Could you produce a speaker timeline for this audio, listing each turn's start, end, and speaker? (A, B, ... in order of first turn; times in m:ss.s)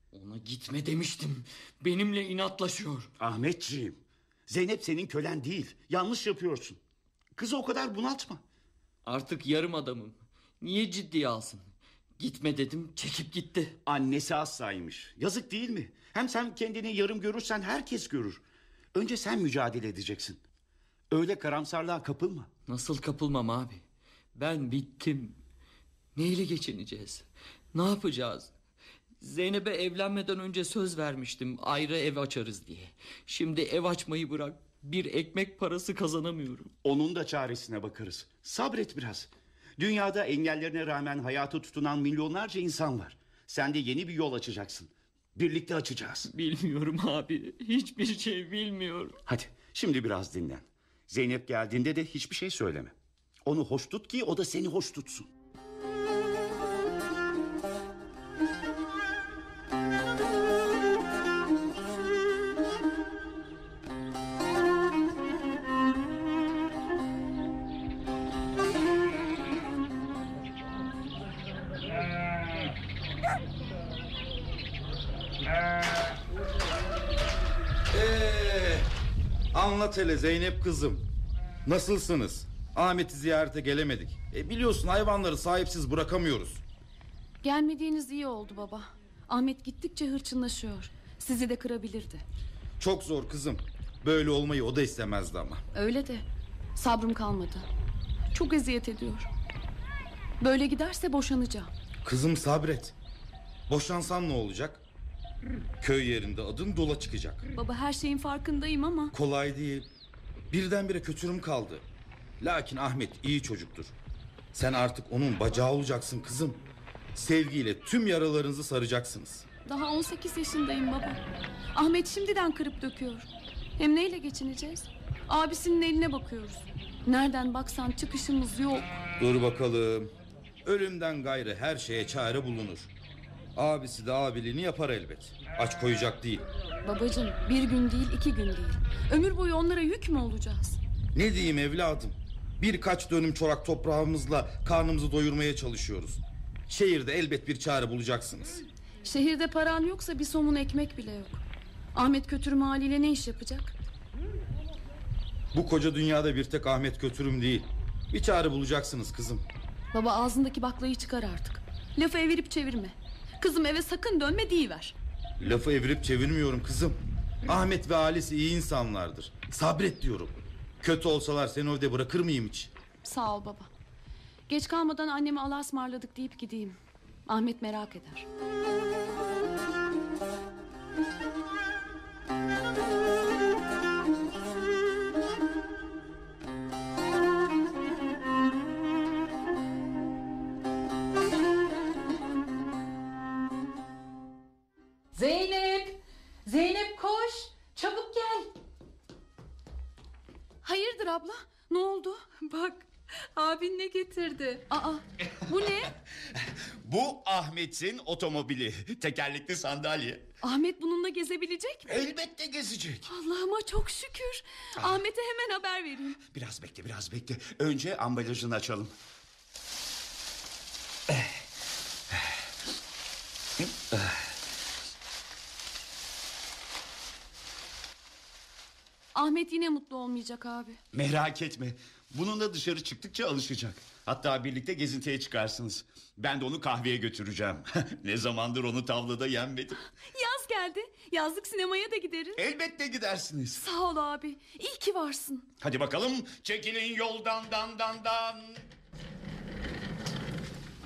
0:00.1-0:03.1 A
0:03.2-0:06.8 B
0:07.4-0:08.4 B
0:09.0-0:11.6 A
0:12.2-0:13.8 A
0:13.8-0:18.4 B
0:18.9-0:20.4 B
0:21.1-0:22.5 B
0:22.7-0:23.8 A
0:24.3-0:25.4 A
0:26.1-0:28.5 A
0:29.2-0:36.7 A
0:36.8-0:46.3 B
0:46.3-0:49.2 A
0:49.3-0:52.9 B
0:53.4-0:55.3 B
1:17.9-1:18.9 C
1:19.5-1:21.0 C
1:21.6-1:26.6 C
1:27.4-1:32.2 D
1:32.8-1:35.6 C
1:35.7-1:36.2 D
1:36.8-1:37.6 D
1:38.3-1:39.3 D
1:40.4-1:41.7 D
1:42.0-1:42.9 C
1:43.7-1:44.8 C
1:45.8-1:47.4 C
1:47.6-1:49.1 D
1:49.1-1:49.9 C
1:50.5-1:51.8 C
1:52.4-1:53.9 C
1:54.5-1:56.6 C
1:57.1-1:59.4 C
1:59.6-2:01.2 D
2:01.7-2:03.3 D
2:03.8-2:08.9 D
2:09.2-2:10.1 C
2:10.6-2:12.9 C
2:13.6-2:16.4 C
2:16.8-2:20.8 D
2:21.1-2:28.6 C
2:29.0-2:31.4 D
2:31.9-2:33.7 D
2:35.5-2:39.4 C
2:39.9-2:44.9 D
2:45.4-2:52.7 C
2:53.0-2:53.7 D
2:54.5-2:56.8 D
2:57.3-2:58.3 D
3:15.1-3:18.5 E
3:20.6-3:22.2 D
3:22.4-3:24.6 E
3:24.7-3:25.9 D
3:26.8-3:30.2 B
3:30.4-3:31.9 D
3:31.9-3:33.1 B
3:33.1-3:36.2 D
3:36.2-3:38.9 B
3:43.6-3:44.1 B
3:49.1-3:50.8 D
3:50.9-3:59.8 B
4:00.1-4:02.4 D
4:02.4-4:03.6 B
4:03.6-4:05.5 D
4:05.6-4:08.6 B